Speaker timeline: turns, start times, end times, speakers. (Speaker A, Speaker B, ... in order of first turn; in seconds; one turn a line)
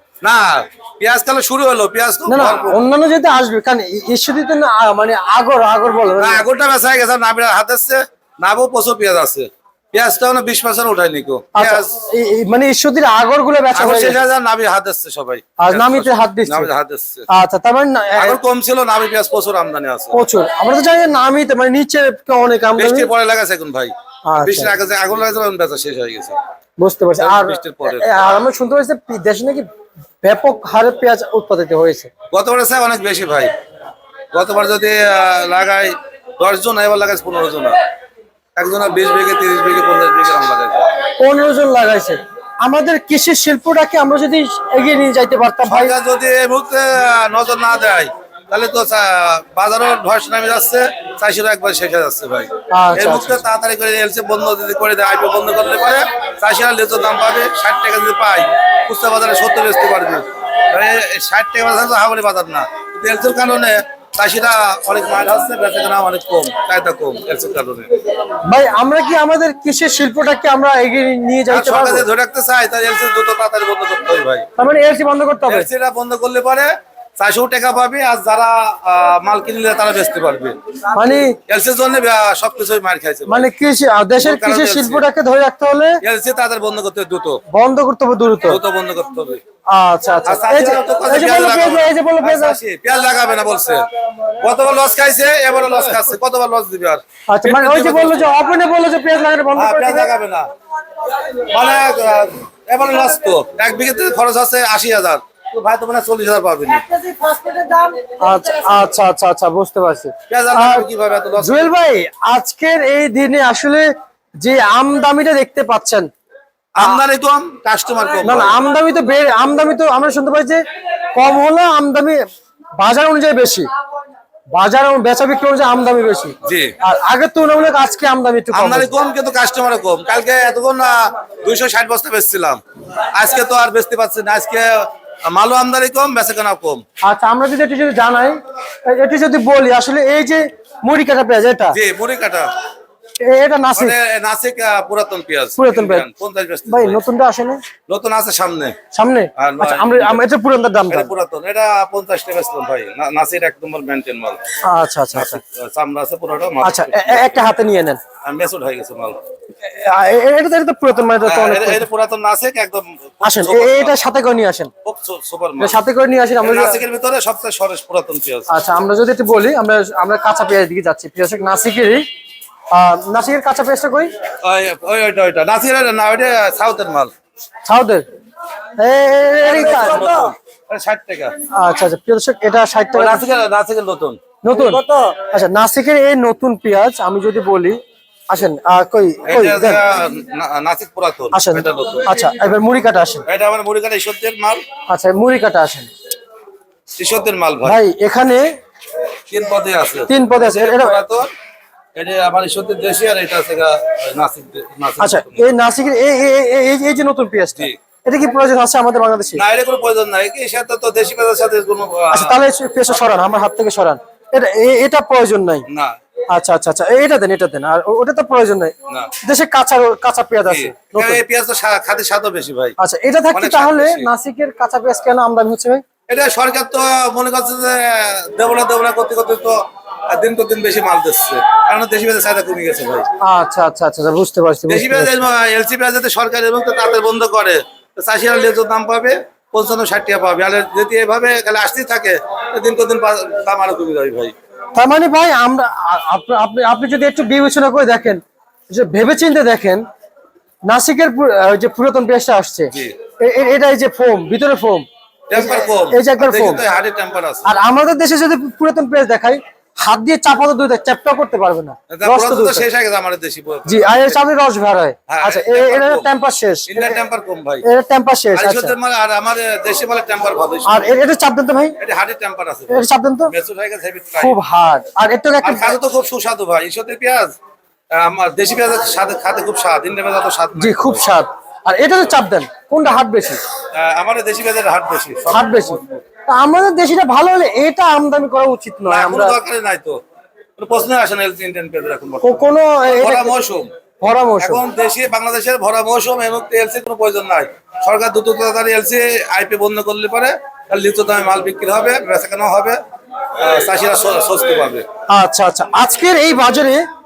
Speaker A: 0.2-2.8
Speaker B: 2.3-6.4
Speaker A: 6.2-11.9
Speaker B: 11.6-14.2
Speaker A: 13.7-17.3
Speaker B: 15.6-16.7
Speaker B: 17.3-18.4
Speaker A: 18.2-20.2
Speaker B: 20.1-23.1
Speaker A: 22.8-26.4
Speaker B: 24.3-24.7
Speaker B: 26.8-29.6
Speaker A: 27.2-28.2
Speaker B: 30.2-32.1
Speaker A: 32.3-33.5
Speaker A: 34.3-37.8
Speaker A: 38.6-40.9
Speaker B: 41.2-46.0
Speaker A: 45.6-67.9
Speaker B: 52.7-53.4
Speaker B: 68.5-72.1
Speaker A: 71.5-74.5
Speaker B: 74.6-75.7
Speaker A: 75.5-80.6
Speaker B: 81.0-81.3
Speaker A: 81.5-83.5
Speaker B: 83.3-86.0
Speaker A: 84.2-85.0
Speaker A: 86.0-87.4
Speaker B: 87.5-88.6
Speaker A: 88.5-89.4
Speaker B: 89.7-92.6
Speaker A: 90.2-93.8
Speaker A: 94.4-98.3
Speaker B: 97.3-100.1
Speaker A: 99.6-100.5
Speaker A: 101.4-106.9
Speaker B: 106.9-110.9
Speaker A: 110.3-111.7
Speaker B: 111.4-113.9
Speaker B: 114.4-116.1
Speaker A: 116.8-118.6
Speaker B: 118.2-120.6
Speaker B: 121.1-122.2
Speaker B: 122.8-123.7
Speaker B: 124.5-128.9
Speaker A: 126.4-126.8
Speaker A: 128.5-136.8
Speaker B: 137.0-141.8
Speaker A: 141.7-142.5
Speaker B: 143.2-143.9
Speaker A: 143.8-147.0
Speaker B: 145.6-146.1
Speaker B: 146.7-147.6
Speaker A: 147.9-148.8
Speaker B: 148.9-151.1
Speaker A: 149.4-150.2
Speaker A: 150.9-154.4
Speaker B: 154.6-155.4
Speaker A: 155.1-157.3
Speaker B: 156.6-158.0
Speaker A: 158.2-159.2
Speaker B: 159.6-161.9
Speaker A: 161.2-163.9
Speaker B: 163.2-164.7
Speaker A: 164.8-165.8
Speaker B: 165.6-166.8
Speaker A: 166.4-168.5
Speaker B: 168.5-172.1
Speaker B: 172.7-174.1
Speaker A: 174.4-177.1
Speaker B: 177.7-178.1
Speaker B: 178.8-180.3
Speaker A: 179.4-181.3
Speaker B: 181.5-183.2
Speaker A: 182.9-185.2
Speaker B: 184.4-187.8
Speaker B: 188.3-189.8
Speaker A: 189.3-192.1
Speaker B: 191.3-193.2
Speaker A: 193.2-194.6
Speaker B: 194.9-195.9
Speaker A: 197.0-197.8
Speaker B: 197.6-198.5
Speaker A: 199.3-201.3
Speaker B: 200.1-201.0
Speaker A: 201.9-205.5
Speaker B: 205.0-209.4
Speaker A: 209.4-212.4
Speaker B: 212.1-215.7
Speaker A: 215.7-215.9
Speaker B: 216.3-221.2
Speaker A: 220.5-222.8
Speaker B: 222.8-225.8
Speaker A: 223.3-224.1
Speaker A: 226.1-233.1
Speaker B: 233.2-235.3
Speaker A: 234.7-244.3
Speaker B: 244.7-249.8
Speaker B: 250.7-256.6
Speaker A: 255.3-257.5
Speaker B: 257.4-262.7
Speaker A: 261.9-264.2
Speaker B: 263.6-267.0
Speaker A: 265.1-266.1
Speaker A: 266.7-267.6
Speaker B: 267.6-268.8
Speaker A: 268.4-270.9
Speaker B: 270.7-271.8
Speaker A: 271.8-274.4
Speaker B: 272.7-273.3
Speaker B: 274.2-275.8
Speaker A: 275.4-277.4
Speaker A: 277.9-281.1
Speaker B: 280.6-283.4
Speaker A: 283.7-286.0
Speaker B: 285.3-289.4
Speaker A: 288.9-290.0
Speaker A: 290.6-293.7
Speaker B: 292.2-293.4
Speaker B: 294.0-294.6
Speaker A: 294.4-302.8
Speaker A: 303.4-304.8
Speaker B: 305.1-306.8